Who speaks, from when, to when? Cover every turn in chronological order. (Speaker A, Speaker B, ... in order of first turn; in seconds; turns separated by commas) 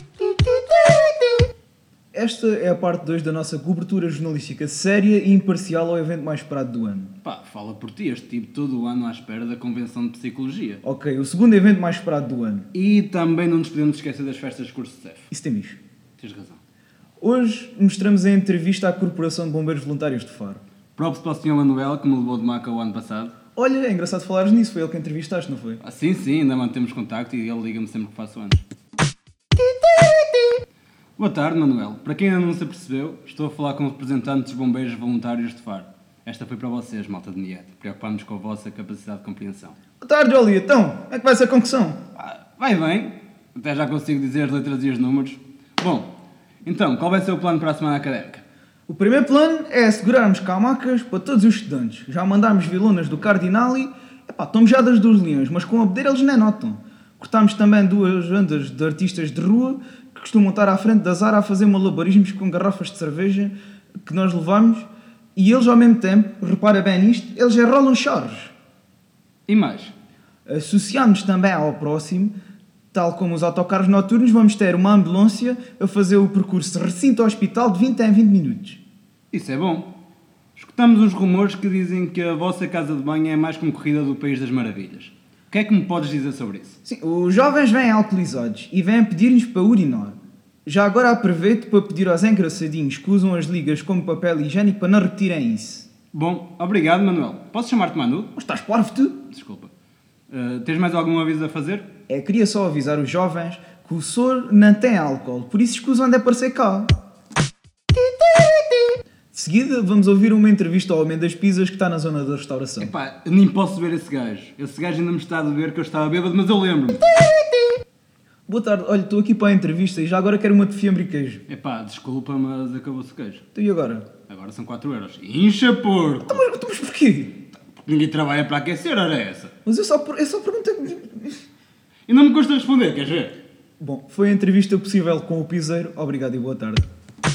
Speaker A: 2.1-7.1, Speaker B: 7.2-10.8, Speaker A: 10.8-12.7, Speaker B: 12.7-15.3, Speaker A: 15.3-15.8, Speaker B: 16.2-16.6, Speaker A: 17.2-20.6, Speaker B: 21.0-23.3, Speaker A: 23.6-25.8, Speaker B: 25.8-28.6, Speaker B: 31.2-39.8, Speaker A: 40.0-42.0, Speaker B: 42.2-46.1, Speaker B: 46.6-48.4, Speaker A: 48.9-63.5, Speaker A: 64.0-68.5, Speaker B: 69.5-69.9, Speaker A: 70.5-72.3, Speaker A: 72.9-78.8, Speaker B: 79.3-79.9, Speaker B: 80.5-86.8, Speaker A: 86.9-95.9, Speaker B: 96.1-98.3, Speaker A: 98.4-99.2, Speaker B: 99.3-99.7, Speaker B: 100.3-101.9, Speaker A: 102.1-106.9, Speaker A: 109.3-112.9, Speaker B: 112.8-117.2, Speaker A: 118.5-121.4, Speaker B: 121.5-123.5, Speaker A: 123.5-124.1, Speaker B: 124.3-126.5, Speaker A: 126.2-127.3, Speaker B: 127.7-129.5, Speaker A: 129.7-131.4, Speaker B: 132.1-133.4, Speaker A: 133.8-136.9